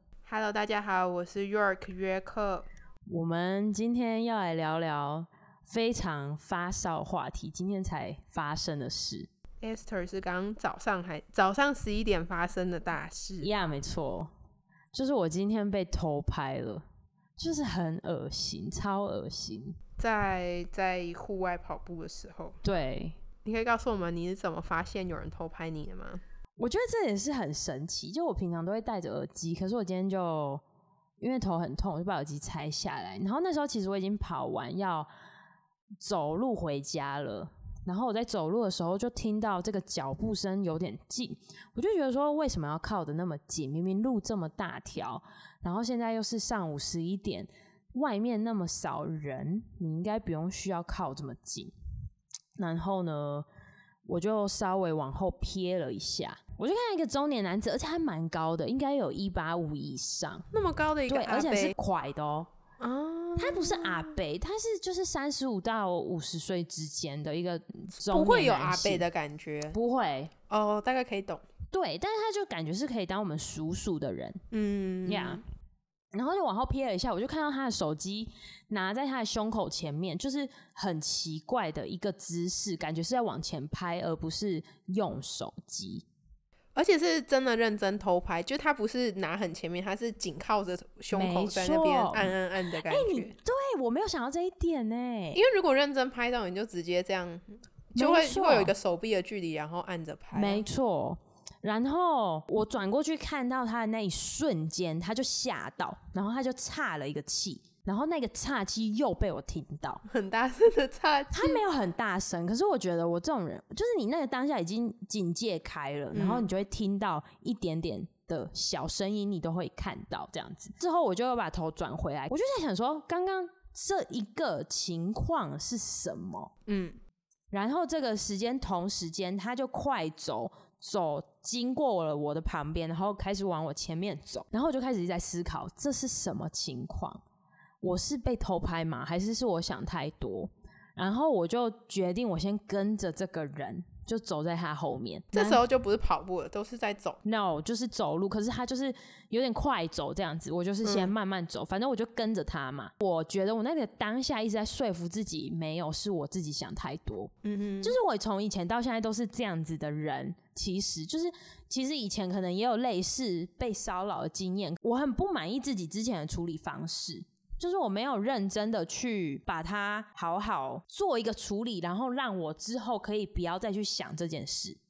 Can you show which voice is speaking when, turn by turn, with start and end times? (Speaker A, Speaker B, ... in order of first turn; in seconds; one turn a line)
Speaker A: 0.3-2.7
Speaker B: 3.1-9.3
Speaker A: 9.6-13.5
Speaker B: 13.4-14.3
Speaker B: 14.9-16.9
Speaker B: 17.4-19.8
Speaker A: 20.0-22.6
Speaker B: 22.6-23.2
Speaker A: 23.4-26.2
Speaker B: 26.6-30.6
Speaker B: 31.2-35.1
Speaker B: 36.0-51.7
Speaker B: 52.6-53.5
Speaker B: 54.1-60.5
Speaker A: 60.5-61.8
Speaker B: 61.1-62.5
Speaker A: 62.8-64.2
Speaker B: 63.4-69.0
Speaker A: 68.0-69.8
Speaker B: 69.7-70.3
Speaker A: 70.5-71.4
Speaker B: 71.7-74.4
Speaker A: 74.5-75.4
Speaker B: 75.1-75.4
Speaker B: 76.1-86.0
Speaker A: 86.8-93.3
Speaker B: 91.1-92.3
Speaker B: 92.9-95.4
Speaker A: 95.3-100.6
Speaker B: 98.0-98.7
Speaker B: 100.3-110.0
Speaker A: 110.1-111.6
Speaker B: 111.3-126.5
Speaker A: 116.1-116.5
Speaker A: 126.7-127.0
Speaker B: 127.5-137.2
Speaker B: 137.8-145.6
Speaker A: 145.3-147.2
Speaker B: 147.2-174.8
Speaker A: 150.8-151.1
Speaker A: 157.4-158.0